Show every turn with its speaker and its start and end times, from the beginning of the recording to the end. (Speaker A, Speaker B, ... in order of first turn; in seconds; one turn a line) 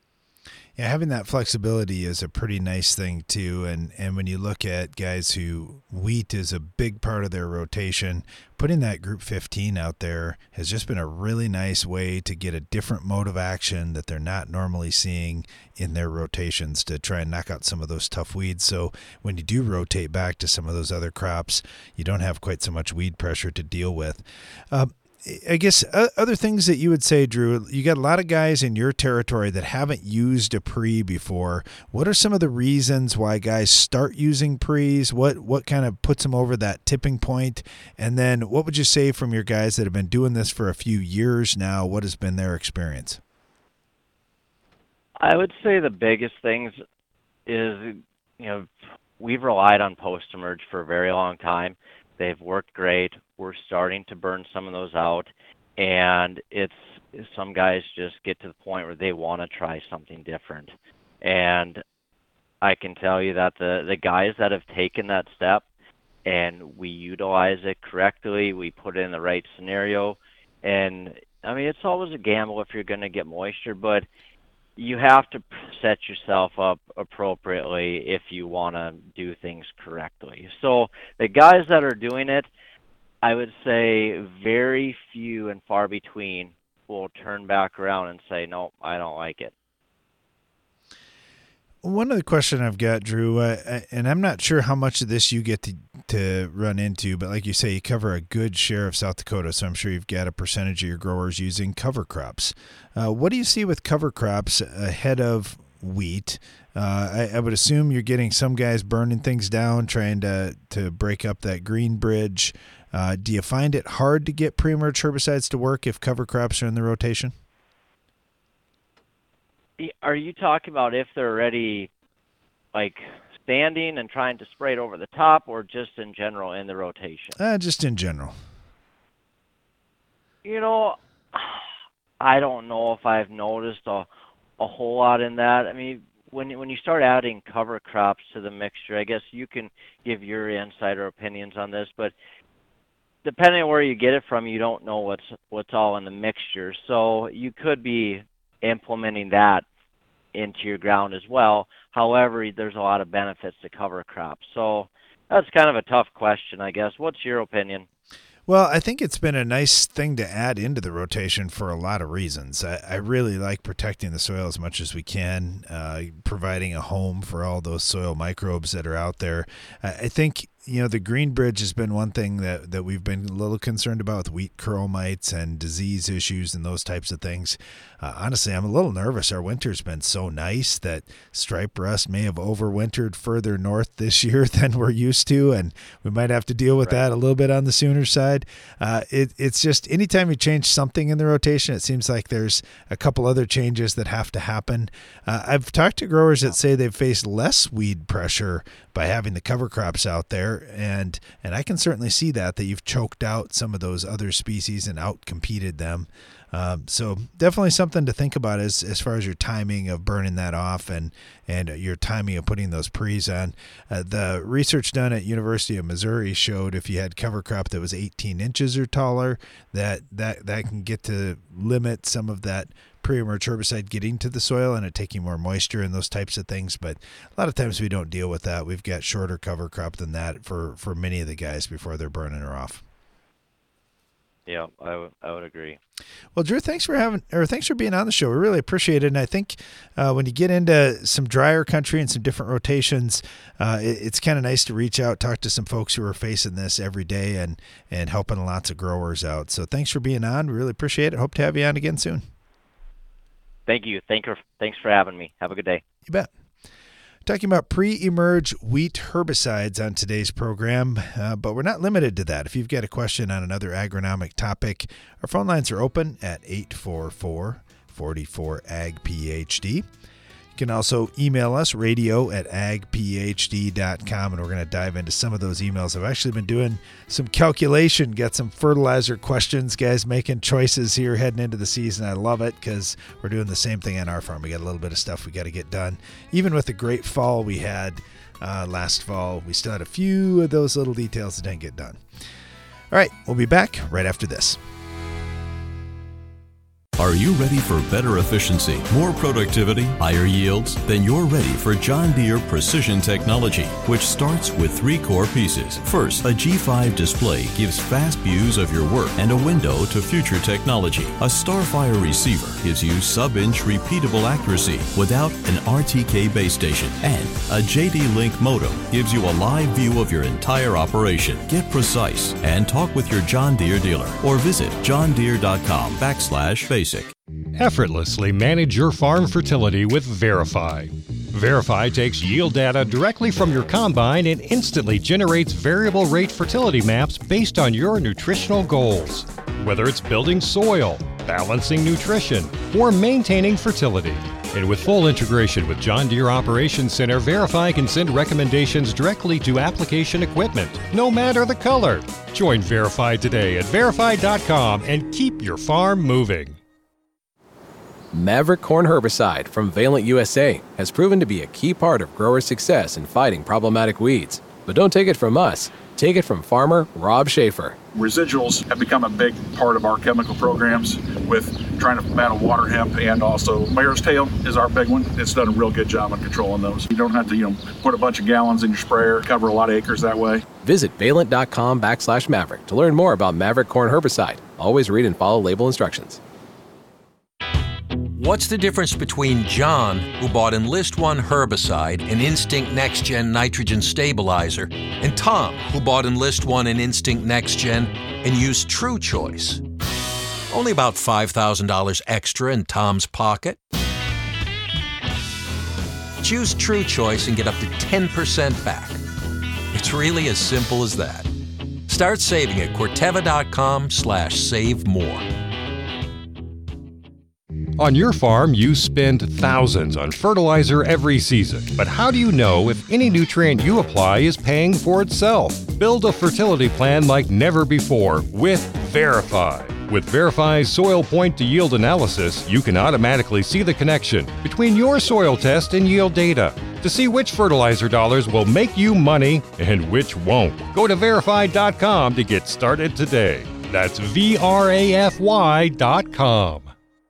Speaker A: 0.8-43.2
Speaker B: 45.2-46.8
Speaker B: 47.5-61.8
Speaker B: 62.6-65.7
Speaker B: 66.2-74.1
Speaker B: 74.8-82.5
Speaker B: 83.2-89.5
Speaker A: 91.8-117.3
Speaker B: 119.8-121.9
Speaker B: 122.7-127.3
Speaker A: 127.4-128.4
Speaker B: 130.4-131.6
Speaker B: 132.2-134.1
Speaker B: 134.6-142.1
Speaker B: 143.2-149.7
Speaker B: 150.3-157.9
Speaker A: 158.5-232.8
Speaker B: 186.8-187.0
Speaker B: 234.5-235.8
Speaker A: 236.3-252.3
Speaker B: 253.7-255.8
Speaker A: 257.2-269.9
Speaker A: 270.6-292.0
Speaker A: 292.9-294.6
Speaker C: 297.0-327.1
Speaker D: 327.6-356.6
Speaker E: 358.1-367.8
Speaker F: 367.9-380.4
Speaker E: 380.6-386.2
Speaker G: 388.1-399.6
Speaker G: 400.5-403.6
Speaker G: 406.2-409.0
Speaker G: 409.7-411.3
Speaker G: 411.9-415.2
Speaker D: 417.8-446.7